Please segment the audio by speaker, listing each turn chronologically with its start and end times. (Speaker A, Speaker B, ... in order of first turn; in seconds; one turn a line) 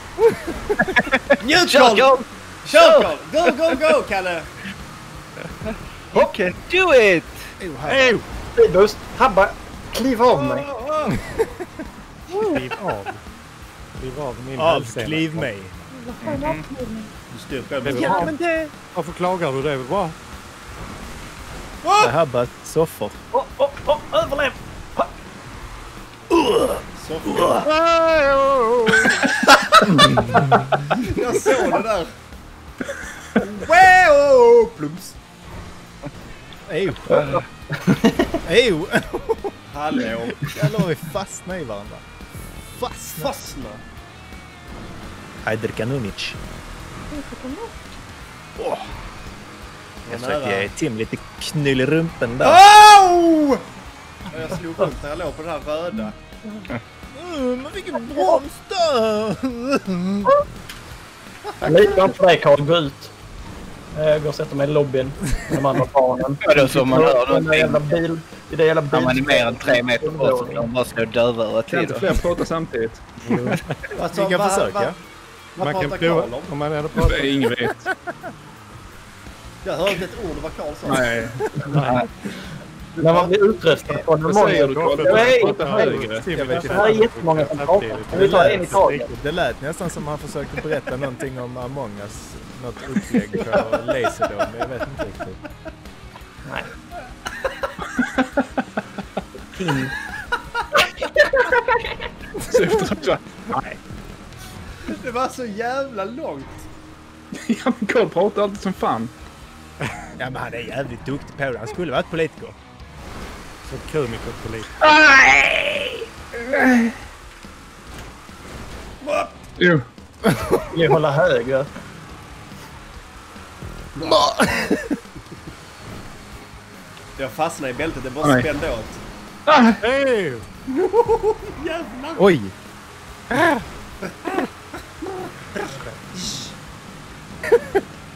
Speaker A: 0.3-0.8
Speaker B: 0.9-3.8
Speaker C: 1.4-2.1
Speaker C: 2.7-4.5
Speaker B: 6.1-7.4
Speaker A: 7.6-8.2
Speaker D: 7.9-8.2
Speaker E: 8.6-10.7
Speaker C: 10.3-11.1
Speaker A: 11.1-11.7
Speaker D: 12.4-13.2
Speaker D: 14.0-15.5
Speaker A: 14.6-15.8
Speaker B: 16.2-16.6
Speaker C: 17.2-17.9
Speaker D: 17.8-18.4
Speaker A: 17.9-18.7
Speaker D: 18.9-20.2
Speaker A: 22.0-23.2
Speaker E: 23.3-25.1
Speaker C: 26.9-27.6
Speaker D: 27.7-29.1
Speaker E: 30.2-30.6
Speaker C: 31.0-32.1
Speaker C: 33.4-35.2
Speaker A: 36.7-37.3
Speaker E: 37.1-38.3
Speaker A: 38.5-39.5
Speaker C: 39.7-40.4
Speaker A: 40.5-42.0
Speaker A: 42.7-43.3
Speaker C: 43.2-43.8
Speaker A: 45.4-46.4
Speaker E: 47.1-47.7
Speaker A: 48.6-48.8
Speaker C: 50.1-50.7
Speaker A: 50.1-52.6
Speaker C: 52.4-53.6
Speaker C: 54.3-56.2
Speaker A: 57.1-60.3
Speaker E: 61.6-63.1
Speaker E: 63.9-70.7
Speaker B: 66.4-68.0
Speaker B: 68.9-72.2
Speaker F: 71.7-73.2
Speaker D: 73.2-73.7
Speaker A: 74.0-75.0
Speaker C: 74.0-75.0
Speaker C: 75.5-76.5
Speaker D: 75.6-77.4
Speaker F: 77.0-77.8
Speaker A: 77.6-78.0
Speaker C: 79.6-81.0
Speaker F: 80.9-81.5
Speaker D: 81.7-82.0
Speaker E: 83.0-86.0
Speaker F: 84.2-86.5
Speaker D: 84.3-89.1
Speaker A: 86.3-86.8
Speaker E: 86.6-89.1
Speaker A: 88.1-95.4
Speaker E: 96.5-96.7
Speaker F: 98.0-98.3
Speaker E: 101.0-101.6
Speaker F: 102.5-103.6
Speaker C: 104.9-106.7
Speaker F: 107.5-109.1
Speaker A: 110.2-112.6
Speaker D: 113.7-114.7
Speaker F: 114.8-116.9
Speaker C: 119.0-119.3
Speaker F: 119.6-119.9
Speaker E: 120.7-121.7
Speaker A: 124.1-124.8
Speaker C: 127.2-129.0
Speaker F: 128.2-128.5
Speaker F: 129.5-129.8
Speaker D: 129.8-130.4
Speaker C: 130.7-132.2
Speaker A: 132.2-132.5
Speaker A: 133.3-133.6